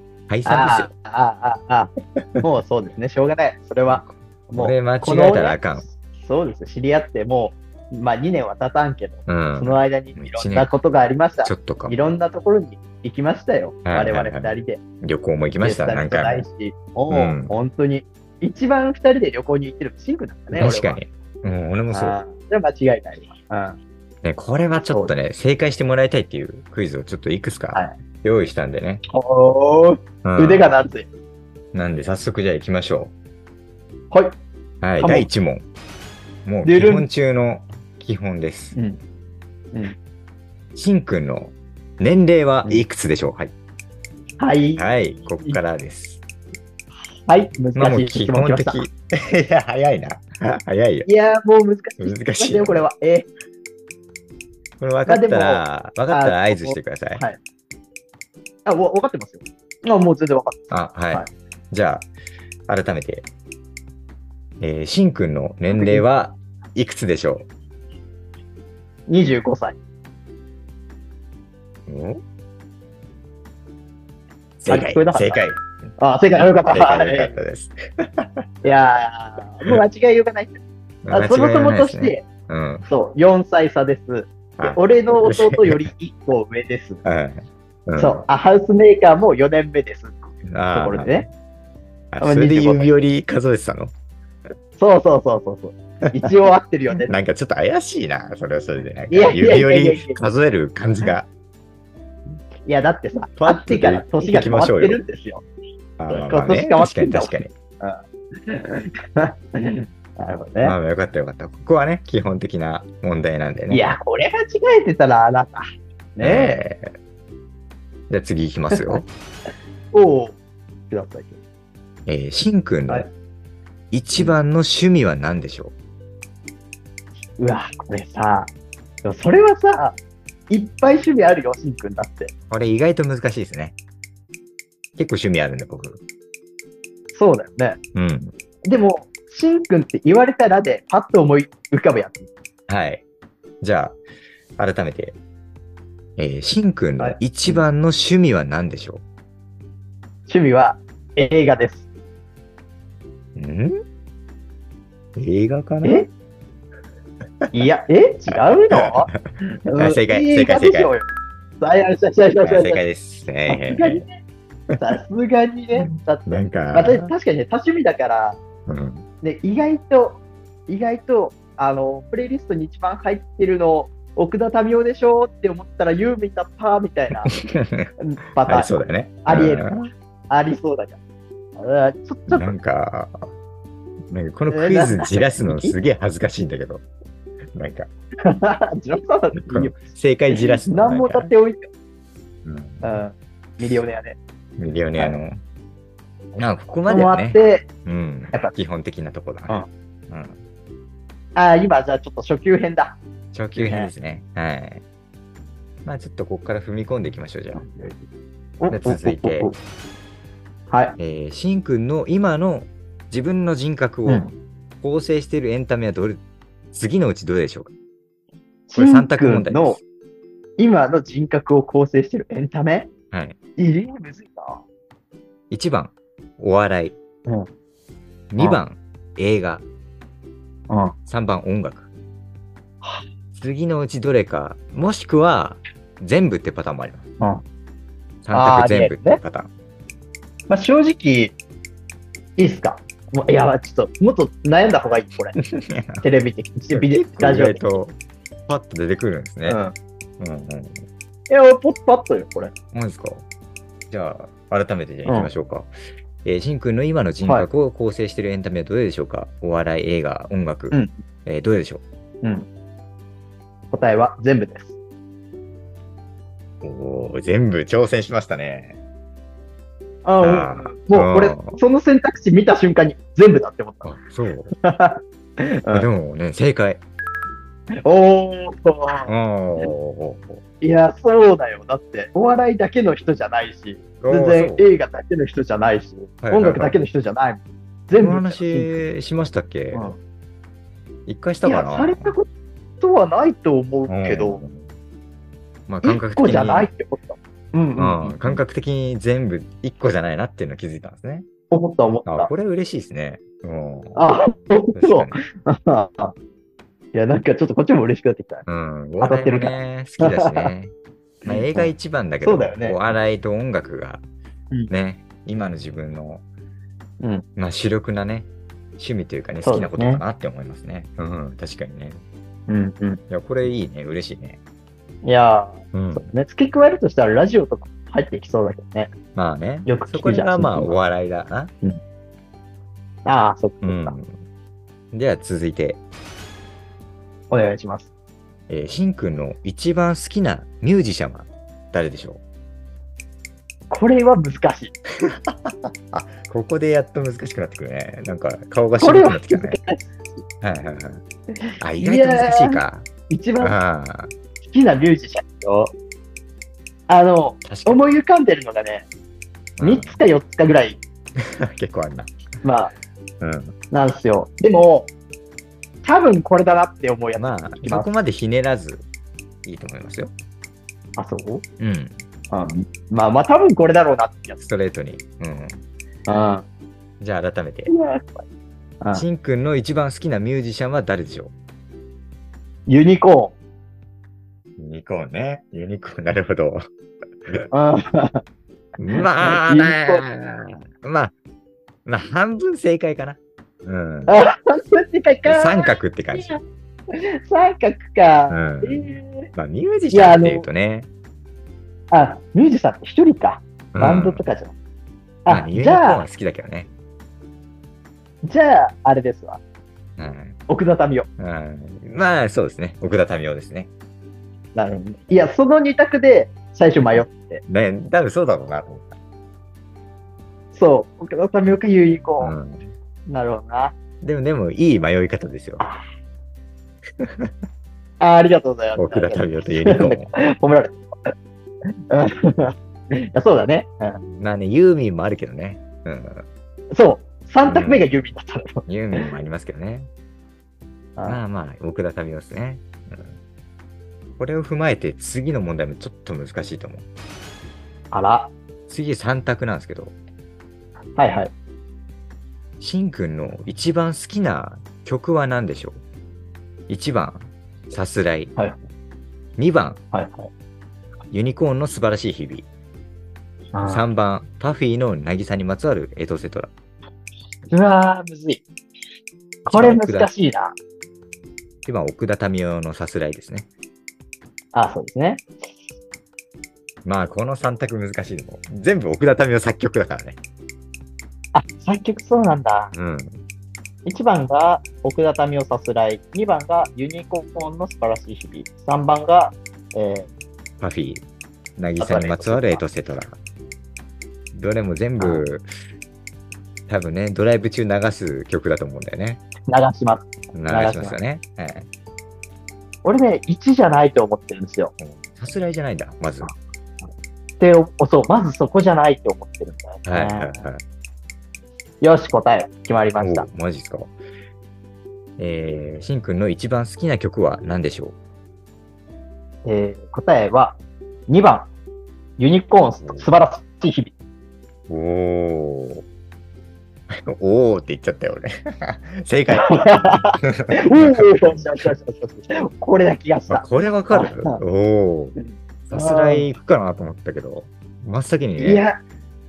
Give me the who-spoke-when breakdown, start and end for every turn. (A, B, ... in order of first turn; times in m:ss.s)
0:00.3-0:00.9 A
0:00.4-0:14.8 B
0:03.9-0:05.9 A
0:09.2-0:10.7 A
0:11.4-0:12.0 A
0:13.8-0:16.4 A
0:15.6-0:21.0 B
0:17.1-0:17.5 A
0:20.5-0:22.2 A
0:21.9-0:23.8 B
0:24.2-0:29.0 A
0:29.1-0:31.1 B
0:30.2-0:30.6 A
0:31.7-0:33.1 A
0:34.1-0:34.4 B
0:34.8-0:35.6 A
0:35.0-0:35.3 B
0:36.4-0:38.7 A
0:36.6-0:37.1 B
0:38.7-0:39.0 B
0:40.7-0:43.5 A
0:44.4-0:44.8 B
0:44.8-0:46.2 A
0:47.3-0:48.8 B
0:47.7-0:51.1 A
0:51.0-0:53.3 B
0:52.0-0:52.8 A
0:54.8-0:57.2 A
0:55.1-0:57.4 B
0:58.6-1:01.3 B
1:00.7-1:02.1 A
1:02.7-1:03.3 A
1:04.6-1:07.5 A
1:05.7-1:06.0 B
1:09.1-1:09.8 B
1:11.9-1:12.2 A
1:14.6-1:15.6 A
1:14.7-1:15.4 B
1:16.0-1:17.3 B
1:16.7-1:18.4 A
1:18.6-1:22.2 B
1:21.0-1:22.9 A
1:22.9-1:27.0 B
1:24.6-1:25.9 A
1:27.0-1:28.2 A
1:28.0-1:31.3 B
1:30.4-1:31.3 A
1:32.1-1:33.9 A
1:32.2-1:32.9 B
1:34.8-1:37.1 B
1:37.0-1:41.3 A
1:39.1-1:40.3 B
1:42.6-1:45.4 B
1:43.4-1:45.0 A
1:46.0-1:47.5 A
1:46.1-1:50.8 B
1:50.6-1:53.9 A
1:53.7-1:55.6 B
1:56.2-1:56.6 B
1:56.2-1:56.9 A
1:58.1-1:59.0 A
1:58.7-1:59.0 B
1:59.9-2:00.4 B
2:00.9-2:01.4 B
2:02.1-2:03.1 A
2:03.9-2:05.7 A
2:07.4-2:08.5 B
2:09.0-2:10.0 B
2:10.5-2:12.3 B
2:12.5-2:13.7 A
2:15.0-2:16.0 A
2:17.1-2:17.8 B
2:17.9-2:18.3 A
2:18.6-2:22.3 B
2:22.7-2:23.0 A
2:23.6-2:24.0 A
2:24.6-2:25.2 A
2:26.2-2:29.0 A
2:27.0-2:27.6 B
2:30.3-2:31.8 B
2:33.3-2:33.8 A
2:35.2-2:36.0 A
2:35.8-2:36.1 B
2:37.5-2:39.1 B
2:38.3-2:39.2 A
2:39.7-2:41.1 B
2:39.8-2:40.9 A
2:41.6-2:42.8 B
2:42.4-2:44.0 A
2:43.5-2:44.1 B
2:44.8-2:48.4 B
2:45.8-2:47.1 A
2:48.7-2:49.0 A
2:49.2-2:57.4 B
2:57.3-2:57.9 A
2:58.0-2:58.7 B
2:58.4-2:59.8 A
2:59.2-3:01.0 B
3:01.6-3:02.5 B
3:02.3-3:03.3 A
3:04.1-3:06.8 A
3:04.5-3:05.8 B
3:07.5-3:07.9 A
3:08.2-3:11.7 B
3:09.4-3:11.3 A
3:12.4-3:12.9 A
3:12.8-3:14.2 B
3:14.6-3:15.4 A
3:16.4-3:20.4 A
3:16.9-3:17.7 B
3:21.4-3:23.0 B
3:23.3-3:24.8 A
3:23.6-3:23.9 B
3:25.8-3:27.6 A
3:27.5-3:28.0 B
3:28.6-3:29.6 B
3:28.7-3:29.5 A
3:30.7-3:31.0 B
3:31.0-3:34.3 A
3:34.1-3:34.3 B
3:34.8-3:37.7 A
3:38.7-3:39.8 B
3:38.7-3:39.8 A
3:40.6-3:42.9 B
3:43.1-3:43.4 A
3:43.6-3:44.6 B
3:45.5-3:47.0 A
3:48.3-3:49.6 A
3:50.7-3:50.9 B
3:51.1-3:51.9 A
3:53.3-3:57.1 A
3:58.2-3:59.5 A
3:58.3-3:59.2 B
4:00.5-4:01.3 B
4:02.4-4:05.4 B
4:05.4-4:06.0 A
4:06.0-4:07.6 B
4:06.7-4:07.9 A
4:08.5-4:09.6 A
4:09.4-4:09.7 B
4:10.2-4:10.8 A
4:11.3-4:12.5 B
4:12.7-4:13.2 A
4:13.9-4:15.7 A
4:15.0-4:15.3 B
4:16.2-4:21.8 A
4:23.7-4:24.7 B
4:26.6-4:28.8 A
4:30.0-4:33.9 B
4:30.2-4:31.6 A
4:33.8-4:34.5 A
4:34.6-4:35.9 B
4:35.7-4:36.8 A
4:37.8-4:39.7 B
4:39.0-4:40.4 A
4:40.6-4:48.8 B
4:44.0-4:44.7 A
4:46.2-4:46.8 A
4:48.0-4:49.9 A
4:49.7-4:50.0 B
4:51.0-4:52.1 A
4:51.4-4:52.3 B
4:52.8-4:54.4 B
4:53.9-4:54.7 A
4:55.7-4:56.7 A
4:55.8-4:58.4 B
4:57.8-5:01.2 A
5:01.5-5:02.3 B
5:02.0-5:04.0 A
5:03.9-5:06.1 B
5:04.7-5:05.2 A
5:06.9-5:08.4 B
5:08.4-5:10.7 A
5:09.0-5:10.5 B
5:11.2-5:11.7 B
5:11.2-5:14.0 A
5:12.2-5:12.8 B
5:14.7-5:16.2 A
5:17.4-5:22.0 A
5:19.4-5:20.0 B
5:22.5-5:23.0 B
5:23.1-5:24.4 A
5:25.0-5:28.9 B
5:25.7-5:26.0 A
5:29.1-5:31.5 A
5:29.6-5:30.8 B
5:33.0-5:34.0 B
5:33.6-5:34.2 A
5:34.9-5:35.8 A
5:37.3-5:37.9 B
5:38.5-5:42.2 A
5:43.7-5:44.7 B
5:45.0-5:49.6 A
5:48.8-5:50.2 B
5:50.4-5:51.0 A
5:51.4-5:53.6 B
5:51.6-5:52.9 A
5:53.4-5:54.1 A
5:54.4-5:55.7 B
5:56.9-5:58.9 B
5:57.4-5:57.8 A
5:59.6-6:00.0 A
5:59.6-6:00.8 B
6:01.2-6:02.1 A
6:02.4-6:02.7 B
6:03.2-6:03.6 A
6:03.7-6:04.9 B
6:05.8-6:07.9 B
6:07.2-6:08.8 A
6:09.4-6:10.1 A
6:11.0-6:11.4 B
6:11.6-6:12.0 A
6:12.3-6:14.4 B
6:14.4-6:15.6 A
6:16.1-6:16.4 B
6:17.0-6:17.7 A
6:17.7-6:18.2 B
6:18.9-6:21.3 A
6:22.7-6:23.3 B
6:24.6-6:26.6 A
6:27.5-6:28.2 B
6:28.8-6:31.1 A
6:29.0-6:30.0 B
6:31.8-6:34.1 A
6:34.1-6:36.4 B
6:35.2-6:36.3 A
6:36.9-6:39.3 B
6:38.3-6:40.9 A
6:39.9-6:40.4 B
6:41.9-6:44.5 B
6:43.7-6:44.2 A
6:45.2-6:46.0 B
6:45.3-6:46.7 A
6:48.2-6:49.4 B
6:50.0-6:50.4 A
6:50.5-6:51.1 B
6:51.2-6:53.7 A
6:54.5-6:57.4 B
6:57.4-6:59.0 A
7:00.5-7:02.3 B
7:02.2-7:02.7 A
7:03.1-7:03.7 B
7:04.0-7:05.6 A
7:07.0-7:07.3 A
7:08.0-7:11.1 B
7:08.7-7:10.1 A
7:11.9-7:12.5 B
7:13.1-7:14.0 B
7:14.2-7:16.2 A
7:16.7-7:19.1 B
7:17.4-7:17.8 A
7:18.6-7:19.9 A
7:21.0-7:23.2 A
7:24.2-7:26.9 A
7:27.9-7:28.3 B
7:28.7-7:29.9 A
7:31.0-7:31.3 B
7:32.6-7:35.8 A
7:36.7-7:38.3 A
7:39.4-7:39.8 A
7:39.9-7:40.3 B
7:41.1-7:42.5 A
7:43.5-7:43.8 B
7:43.7-7:46.5 A
7:47.5-7:48.4 B
7:49.4-7:50.1 A
7:49.4-7:50.5 B
7:51.6-7:53.5 A
7:54.5-7:55.3 B
7:56.8-8:00.2 A
8:01.3-8:02.7 B
8:02.7-8:03.2 A
8:03.8-8:10.1 B
8:10.6-8:11.0 A
8:11.6-8:13.2 A
8:11.8-8:12.6 B
8:14.3-8:15.5 A
8:15.0-8:15.2 B
8:16.7-8:19.2 A
8:19.5-8:21.0 B
8:20.3-8:21.7 A
8:22.8-8:24.7 B
8:24.8-8:26.3 A
8:27.4-8:30.5 B
8:29.8-8:30.6 A
8:31.8-8:33.2 B
8:33.0-8:33.9 A
8:35.2-8:38.0 A
8:39.4-8:41.5 B
8:42.2-8:43.9 B
8:44.7-8:45.8 A
8:46.9-8:51.7 A
8:49.3-8:54.4 B
8:53.3-8:55.2 A
8:55.7-8:58.6 A
8:55.7-8:56.3 B
8:58.4-8:58.8 B